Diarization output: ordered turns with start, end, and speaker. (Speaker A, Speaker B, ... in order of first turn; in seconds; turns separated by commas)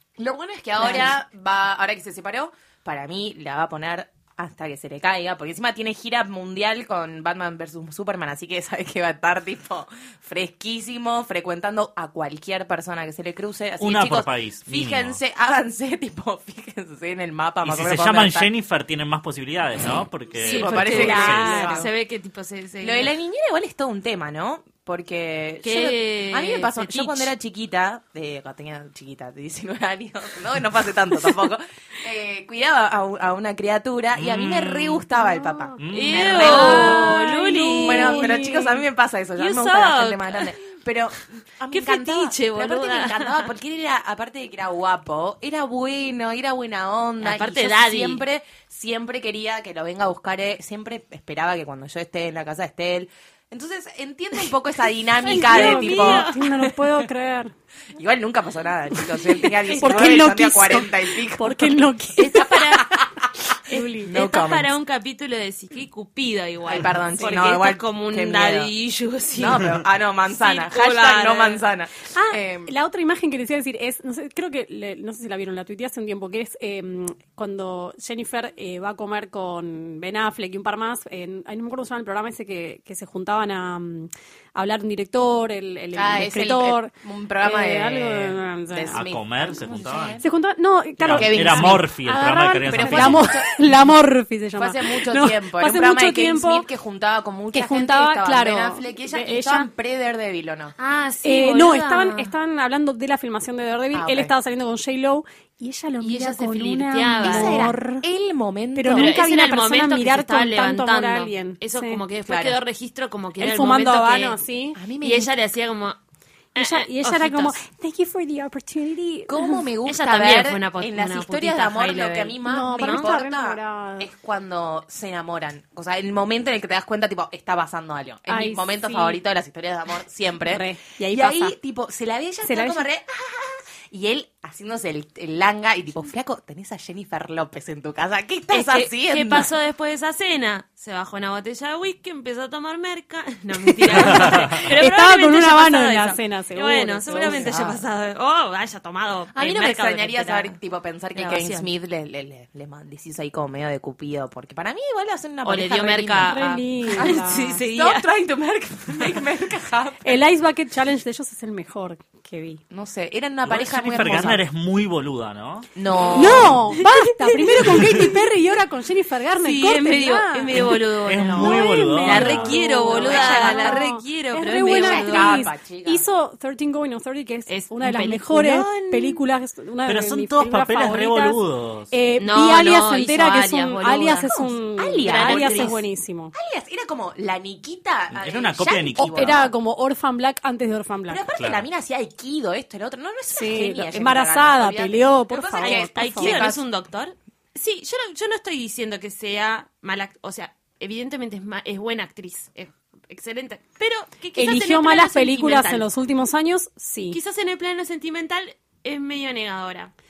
Speaker A: 0.2-18.5, Speaker B: 0.8-1.1, Speaker C: 13.8-15.2, Speaker C: 17.6-21.7, Speaker A: 20.4-21.9, Speaker D: 20.4-23.1, Speaker B: 20.7-21.9, Speaker A: 22.8-37.3, Speaker D: 25.6-27.3, Speaker C: 34.1-35.0, Speaker B: 35.2-38.8, Speaker C: 35.8-36.3, Speaker D: 35.9-38.4, Speaker A: 37.8-56.4, Speaker D: 39.4-40.5, Speaker D: 41.7-43.5, Speaker D: 47.2-48.2, Speaker D: 55.2-56.5, Speaker B: 55.3-57.5, Speaker A: 57.9-61.8, Speaker B: 59.4-62.6, Speaker D: 59.6-60.2, Speaker D: 62.2-63.0, Speaker A: 62.3-63.2, Speaker B: 63.7-64.1, Speaker D: 63.7-69.8, Speaker A: 64.0-64.7, Speaker A: 66.7-68.7, Speaker A: 69.3-72.7, Speaker D: 70.3-71.6, Speaker B: 72.1-89.0, Speaker A: 85.9-90.2, Speaker C: 88.9-90.2, Speaker B: 90.2-96.7, Speaker C: 91.0-93.3, Speaker A: 91.1-91.9, Speaker A: 92.7-93.6, Speaker A: 94.6-100.7, Speaker B: 97.5-99.7, Speaker D: 100.8-102.3, Speaker B: 101.2-108.0, Speaker A: 103.9-104.3, Speaker D: 106.0-107.7, Speaker A: 107.2-109.1, Speaker B: 108.7-112.0, Speaker D: 108.9-114.4, Speaker A: 112.3-112.6, Speaker B: 113.4-114.8, Speaker A: 114.8-115.3, Speaker D: 115.0-116.0, Speaker D: 116.5-117.6, Speaker B: 116.5-119.7, Speaker A: 119.3-139.5, Speaker D: 119.8-123.1, Speaker B: 122.4-124.1, Speaker B: 128.3-129.2, Speaker B: 130.4-131.5, Speaker B: 132.4-132.8, Speaker D: 138.5-150.5, Speaker B: 143.9-147.7, Speaker A: 147.1-147.8, Speaker A: 149.3-156.4, Speaker D: 151.1-151.7, Speaker D: 155.4-158.1, Speaker B: 156.2-157.6, Speaker A: 157.0-160.2, Speaker B: 160.0-162.6, Speaker A: 162.7-164.4, Speaker C: 163.4-165.7, Speaker A: 165.8-166.6, Speaker B: 166.1-170.5, Speaker D: 166.8-168.0, Speaker C: 167.6-168.0, Speaker D: 169.4-175.5, Speaker C: 170.5-172.6, Speaker B: 171.3-181.4, Speaker A: 172.1-173.8, Speaker A: 174.6-176.0, Speaker D: 177.5-179.2, Speaker C: 179.8-181.9, Speaker B: 181.9-186.3, Speaker D: 182.2-184.3, Speaker A: 184.2-189.5, Speaker D: 185.0-185.8, Speaker C: 188.1-189.4, Speaker B: 189.0-191.2, Speaker A: 191.1-196.6, Speaker C: 191.4-191.7, Speaker B: 193.3-196.5, Speaker D: 195.6-205.8, Speaker B: 204.3-207.2, Speaker D: 207.1-209.9